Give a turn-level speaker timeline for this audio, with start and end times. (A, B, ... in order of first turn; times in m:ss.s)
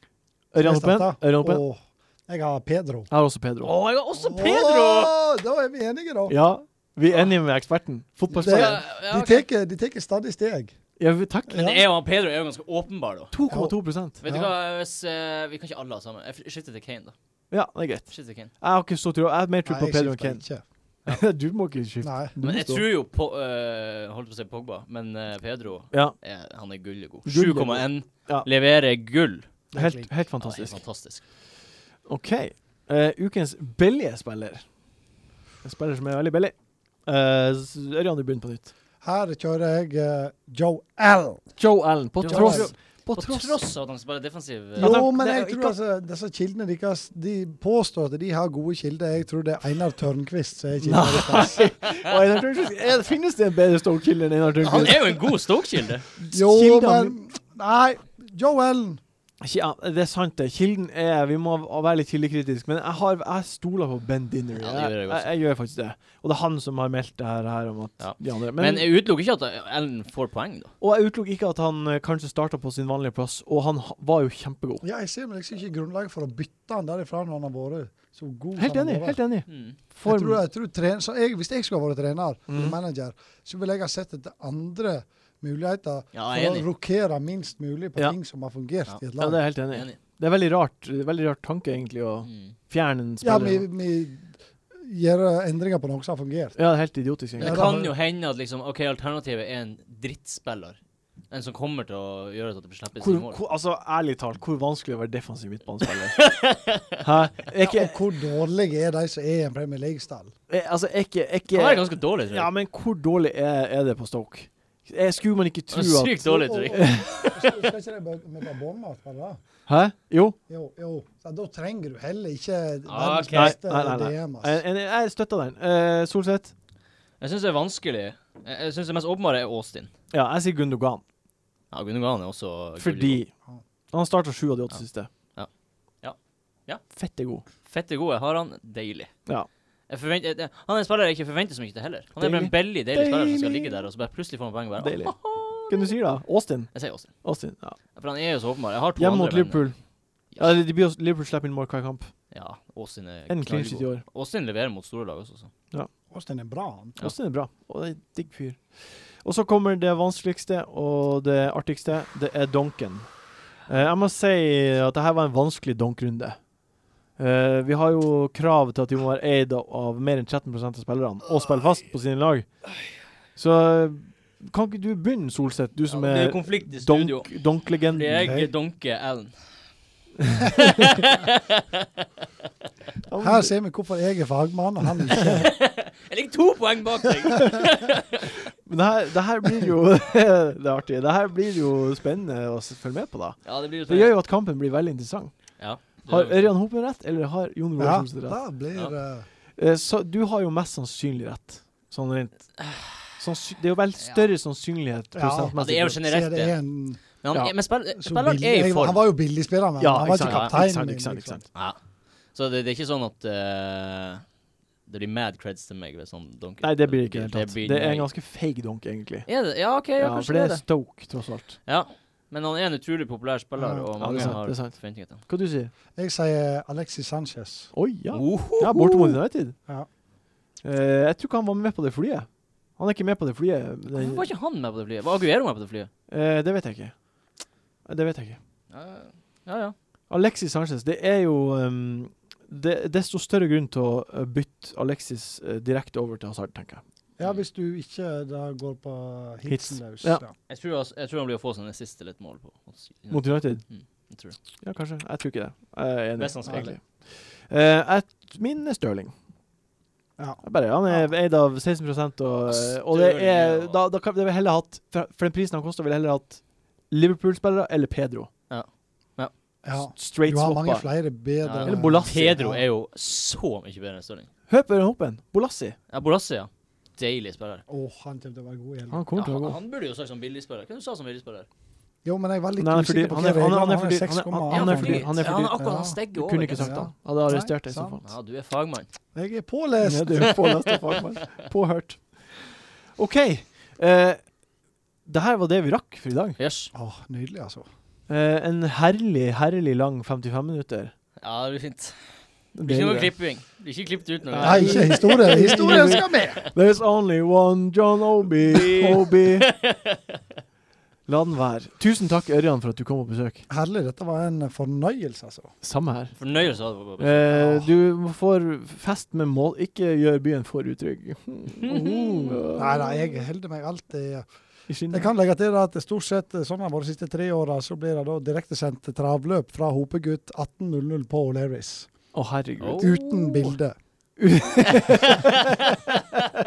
0:00.5-0:01.6 A
0:00.6-0:03.1 B
0:03.1-0:03.7 A
0:03.6-0:05.1 C
0:04.2-0:06.4 B
0:06.3-0:08.8 A
0:08.3-0:09.5 C
0:08.4-0:10.8 B
0:11.0-0:11.7 A
0:11.5-0:13.3 C
0:11.6-0:11.8 B
0:13.3-0:14.2 A
0:13.5-0:14.5 B
0:14.2-0:17.1 C
0:17.5-0:20.4 A
0:18.1-0:18.5 C
0:19.6-0:20.6 B
0:21.1-0:22.8 A
0:22.0-0:22.3 B
0:22.4-0:29.5 C
0:27.3-0:28.5 A
0:29.7-0:30.1 B
0:29.8-0:30.8 A
0:30.4-0:31.2 C
0:32.1-0:34.6 A
0:35.6-0:36.5 A
0:37.1-0:38.7 A
0:39.0-0:41.5 B
0:41.6-0:43.6 A
0:42.2-0:45.0 C
0:42.3-0:42.7 B
0:44.8-0:51.7 B
0:44.8-0:45.8 A
0:50.8-0:55.3 A
0:54.6-0:56.1 C
0:56.2-0:57.2 A
0:56.3-0:59.0 B
0:59.4-1:08.9 A
1:04.6-1:05.3 C
1:08.0-1:10.7 C
1:10.8-1:14.8 A
1:14.8-1:19.2 B
1:18.6-1:20.4 A
1:19.5-1:19.8 C
1:20.0-1:29.4 B
1:22.5-1:22.8 A
1:26.1-1:26.7 C
1:29.2-1:33.6 A
1:29.7-1:30.0 C
1:32.3-1:32.6 C
1:33.2-1:36.6 B
1:36.6-1:37.8 A
1:37.4-1:37.9 B
1:37.4-1:40.8 C
1:41.3-1:43.4 C
1:43.0-1:46.2 A
1:45.9-1:47.0 C
1:47.0-1:48.0 A
1:47.6-1:50.3 B
1:50.5-1:57.1 A
1:51.5-1:52.5 C
1:55.7-1:57.6 C
1:56.3-1:59.4 B
1:59.7-2:00.4 A
2:00.5-2:04.6 B
2:02.9-2:03.6 C
2:03.3-2:06.5 A
2:07.2-2:09.9 C
2:10.1-2:11.0 A
2:11.7-2:13.2 C
2:12.8-2:13.3 A
2:13.9-2:15.1 A
2:16.0-2:16.8 C
2:17.0-2:17.4 A
2:17.6-2:19.1 C
2:19.9-2:26.0 C
2:22.2-2:23.8 A
2:24.8-2:27.8 A
2:26.7-2:27.1 C
2:27.9-2:29.7 C
2:29.0-2:29.8 A
2:30.4-2:32.1 A
2:32.3-2:35.5 C
2:33.3-2:34.0 A
2:36.1-2:37.0 B
2:37.0-2:43.1 A
2:43.7-2:46.4 A
2:47.2-2:52.6 A
2:53.4-2:58.4 A
2:55.9-2:59.3 C
2:58.2-2:58.5 B
3:00.5-3:01.9 C
3:03.1-3:03.5 A
3:03.2-3:05.5 B
3:05.1-3:08.4 C
3:08.7-3:15.3 A
3:13.4-3:14.1 C
3:15.6-3:16.5 C
3:16.1-3:18.4 A
3:17.8-3:19.3 B
3:19.6-3:26.0 A
3:22.6-3:23.0 C
3:25.1-3:27.0 B
3:25.6-3:26.6 C
3:27.2-3:29.0 C
3:28.0-3:31.4 B
3:29.8-3:31.4 A
3:30.1-3:30.6 C
3:32.3-3:34.2 C
3:34.9-3:38.1 C
3:36.6-3:39.3 A
3:39.3-3:40.6 C
3:40.0-3:41.6 A
3:41.6-3:45.2 C
3:43.6-3:44.3 B
3:44.0-3:45.7 A
3:46.0-3:47.7 B
3:47.7-3:49.6 A
3:48.1-3:49.2 C
3:50.6-3:52.3 A
3:52.8-3:54.3 A
3:53.9-3:55.9 C
3:56.1-3:56.9 A
3:57.9-3:58.4 A
3:58.7-3:59.8 C
4:00.1-4:06.8 A
4:07.2-4:10.3 B
4:09.5-4:10.2 A
4:10.5-4:14.4 C
4:13.1-4:13.6 A
4:14.6-4:19.1 A
4:16.2-4:16.8 C
4:20.2-4:21.1 B
4:20.4-4:28.3 A
4:22.5-4:23.8 C
4:28.5-4:29.3 C
4:29.6-4:32.6 B
4:30.0-4:30.9 A
4:31.4-4:34.3 C
4:31.7-4:32.1 A
4:34.5-4:35.8 A
4:35.9-4:37.6 C
4:37.7-4:39.1 B
4:38.9-4:39.6 A
4:39.2-4:41.5 C
4:42.0-4:46.0 B
4:42.6-4:48.1 A
4:44.5-4:46.9 C
4:46.6-4:48.0 B
4:48.0-4:48.9 C
4:49.2-4:50.4 B
4:49.8-4:52.1 A
4:50.3-4:51.2 C
4:53.0-4:54.2 A
4:55.1-4:56.4 A
4:56.4-4:56.7 C
4:56.7-4:57.7 B
4:58.1-5:00.9 A
5:01.2-5:06.5 C
5:02.6-5:03.1 A
5:04.3-5:09.5 A
5:04.4-5:06.4 B
5:08.5-5:10.2 C
5:11.1-5:13.4 A
5:13.5-5:15.5 B
5:15.6-5:16.1 A
5:16.2-5:17.4 C
5:17.0-5:22.9 A
5:17.3-5:17.7 B
5:21.6-5:22.5 C
5:22.6-5:24.3 B
5:24.7-5:25.1 A
5:24.9-5:31.9 B
5:32.1-5:33.6 A
5:32.6-5:33.0 C
5:32.8-5:33.8 B
5:34.2-5:36.2 A
5:34.7-5:35.6 C